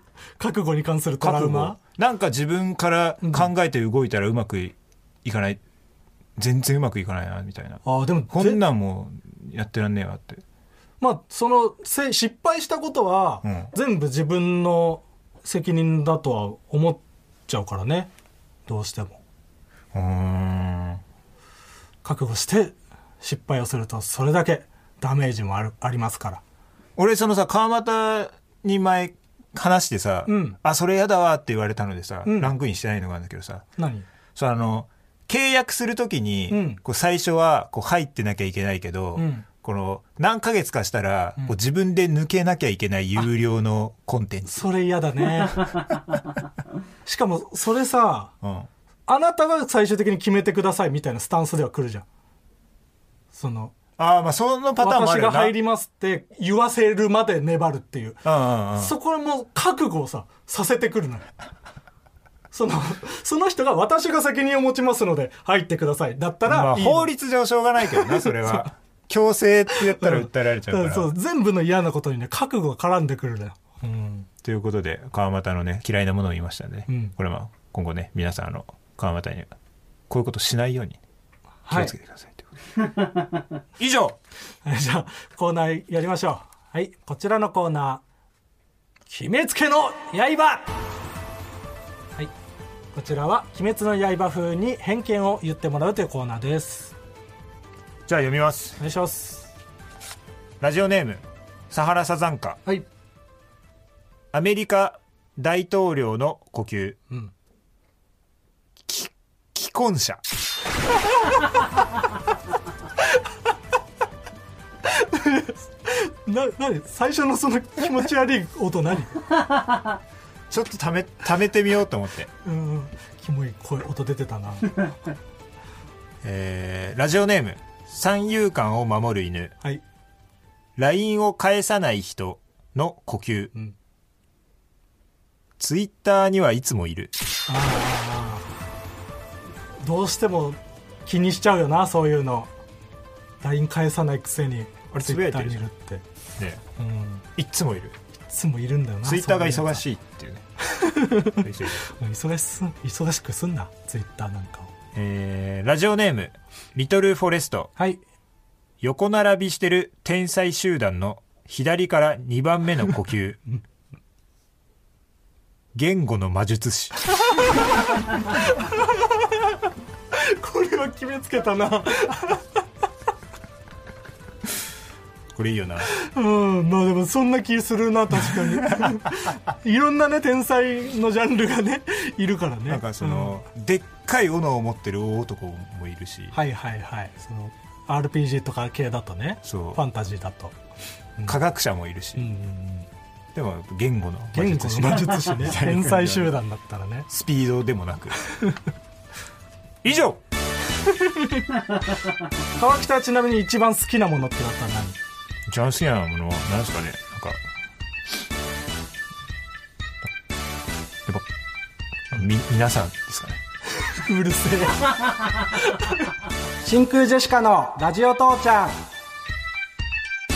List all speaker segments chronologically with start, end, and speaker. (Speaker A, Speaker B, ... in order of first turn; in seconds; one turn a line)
Speaker A: 0.4-1.8
Speaker B: 1.2-5.6
Speaker A: 3.2-3.5
Speaker B: 6.3-10.4
Speaker A: 7.8-8.6
Speaker A: 11.0-18.1
Speaker A: 18.7-19.2
Speaker B: 19.9-21.0
Speaker A: 22.0-26.4
Speaker B: 27.0-33.7
Speaker A: 30.3-30.6
Speaker A: 32.2-32.5
Speaker A: 33.8-34.1
Speaker B: 34.3-44.6
Speaker A: 36.5-36.8
Speaker A: 39.1-39.4
Speaker A: 44.5-45.7
Speaker A: 47.0-48.3
Speaker B: 48.4-48.7
Speaker A: 49.1-52.0
Speaker A: 53.3-53.7
Speaker B: 54.0-55.5
Speaker A: 54.8-61.3
Speaker B: 58.2-58.9
Speaker A: 62.5-67.1
Speaker B: 66.5-71.1
Speaker A: 67.9-68.6
Speaker A: 69.7-74.3
Speaker B: 74.4-79.5
Speaker A: 76.9-77.1
Speaker B: 80.1-81.0
Speaker A: 81.6-81.9
Speaker B: 81.7-82.5
Speaker B: 83.8-84.2
Speaker A: 84.6-88.0
Speaker A: 89.1-90.7
Speaker A: 92.9-96.9
Speaker B: 98.1-98.8
Speaker A: 98.8-99.5
Speaker B: 100.6-102.6
Speaker B: 104.3-107.0
Speaker B: 108.8-110.2
Speaker A: 114.8-119.2
Speaker B: 120.5-122.3
Speaker A: 122.4-124.9
Speaker B: 126.2-129.5
Speaker B: 130.8-133.5
Speaker B: 135.6-137.1
Speaker A: 137.5-138.5
Speaker A: 139.8-142.5
Speaker A: 143.4-146.0
Speaker B: 144.9-145.6
Speaker B: 146.4-146.6
Speaker A: 146.8-147.2
Speaker B: 147.3-147.9
Speaker A: 148.3-149.8
Speaker B: 149.0-150.4
Speaker A: 150.6-154.7
Speaker B: 151.4-151.8
Speaker B: 154.9-157.7
Speaker B: 158.8-163.4
Speaker B: 165.7-167.1
Speaker A: 170.1-172.4
Speaker B: 175.3-175.9
Speaker A: 175.9-183.4
Speaker B: 178.4-179.0
Speaker B: 182.7-186.3
Speaker A: 186.3-190.5
Speaker B: 189.4-189.8
Speaker B: 191.2-192.3
Speaker A: 192.1-192.9
Speaker B: 193.3-196.4
Speaker A: 194.3-197.1
Speaker B: 197.1-198.2
Speaker A: 198.2-198.6
Speaker B: 199.8-200.2
Speaker A: 200.8-201.4
Speaker A: 202.6-205.0
Speaker B: 205.5-207.4
Speaker B: 212.1-213.4
Speaker A: 213.8-215.1
Speaker A: 215.6-216.1
Speaker A: 216.6-218.8